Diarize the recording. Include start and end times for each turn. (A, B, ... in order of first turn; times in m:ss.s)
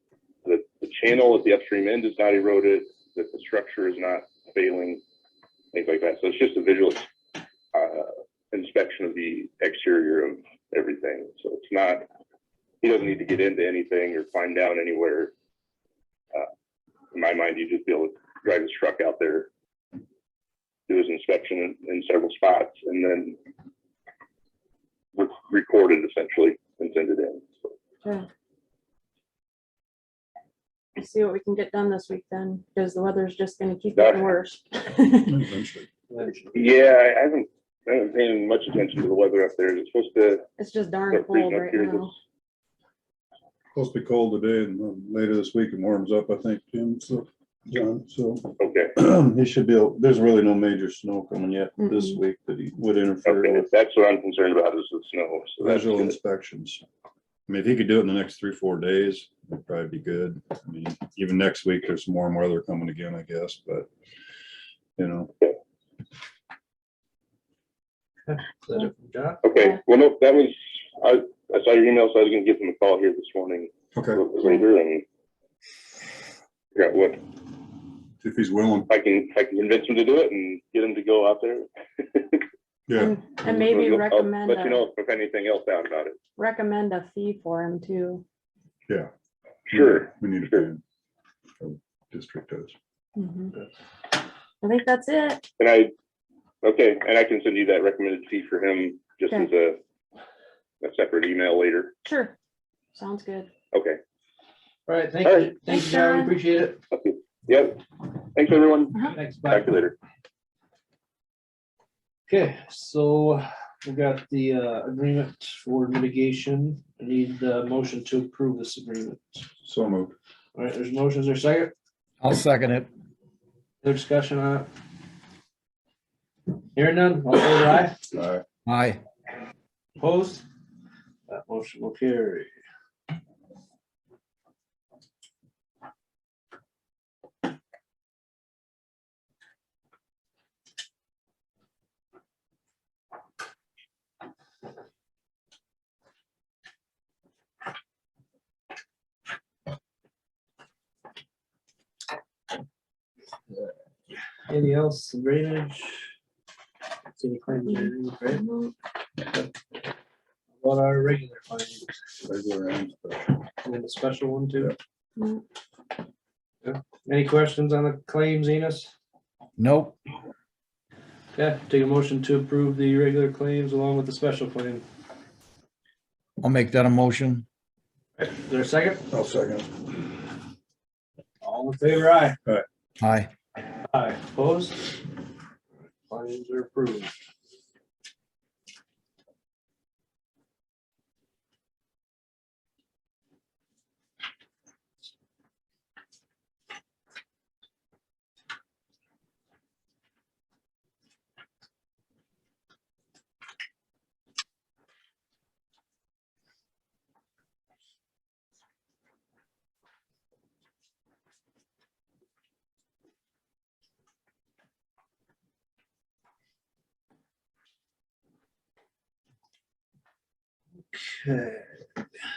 0:00.4-0:05.0 A
0:05.7-0:07.1 A
0:07.7-0:12.0 A
0:12.8-0:15.3 A
0:17.1-0:19.5 A
0:20.9-0:23.4 A
0:25.1-0:27.8 A
0:31.0-0:35.4 B
0:34.0-0:34.4 A
0:35.2-0:35.9 C
0:36.1-0:36.8 D
0:36.5-0:40.5 A
0:40.6-0:42.2 B
0:41.1-0:42.1 A
0:43.7-0:53.7 C
0:48.6-0:49.0 A
0:51.8-0:52.2 B
0:53.3-0:56.2 A
0:55.6-0:56.8 C
0:57.5-1:03.9 C
1:05.0-1:05.3 C
1:08.3-1:09.4 D
1:09.4-1:15.0 A
1:13.9-1:14.2 C
1:16.8-1:17.2 A
1:18.2-1:18.9 C
1:18.9-1:22.4 A
1:22.9-1:23.2 C
1:22.9-1:24.8 B
1:23.4-1:26.2 A
1:26.4-1:28.2 B
1:29.7-1:30.7 A
1:29.7-1:30.8 C
1:31.6-1:32.8 C
1:33.2-1:33.5 B
1:34.6-1:35.4 B
1:35.6-1:35.9 A
1:36.6-1:39.8 A
1:40.8-1:42.0 A
1:42.0-1:42.3 B
1:43.0-1:43.5 B
1:43.7-1:44.0 A
1:44.9-1:46.8 D
1:45.2-1:45.6 A
1:45.7-1:46.3 B
1:46.9-1:50.0 A
1:49.1-1:49.8 D
1:52.3-1:59.4 D
1:59.6-2:00.2 C
2:00.6-2:01.7 D
2:02.2-2:02.9 E
2:03.8-2:04.7 D
2:06.8-2:08.0 D
2:08.1-2:08.4 C
2:08.7-2:09.0 E
2:10.0-2:10.4 D
2:11.3-2:12.5 D
2:34.5-2:36.1 D
2:37.1-2:38.4 D
2:37.7-2:38.8 B
2:39.3-2:39.5 D
2:40.6-2:41.9 D
2:42.2-2:43.4 C
2:43.6-2:44.8 D
2:45.2-2:45.4 B
2:46.6-2:48.9 D
2:49.6-2:50.0 E
2:51.3-2:54.8 D
2:56.4-2:57.5 E
2:58.2-2:59.0 D
2:59.1-2:59.7 C
3:01.4-3:02.4 D
3:03.0-3:03.3 E
3:03.9-3:04.9 D
3:05.8-3:07.2 D
3:40.9-3:41.8 D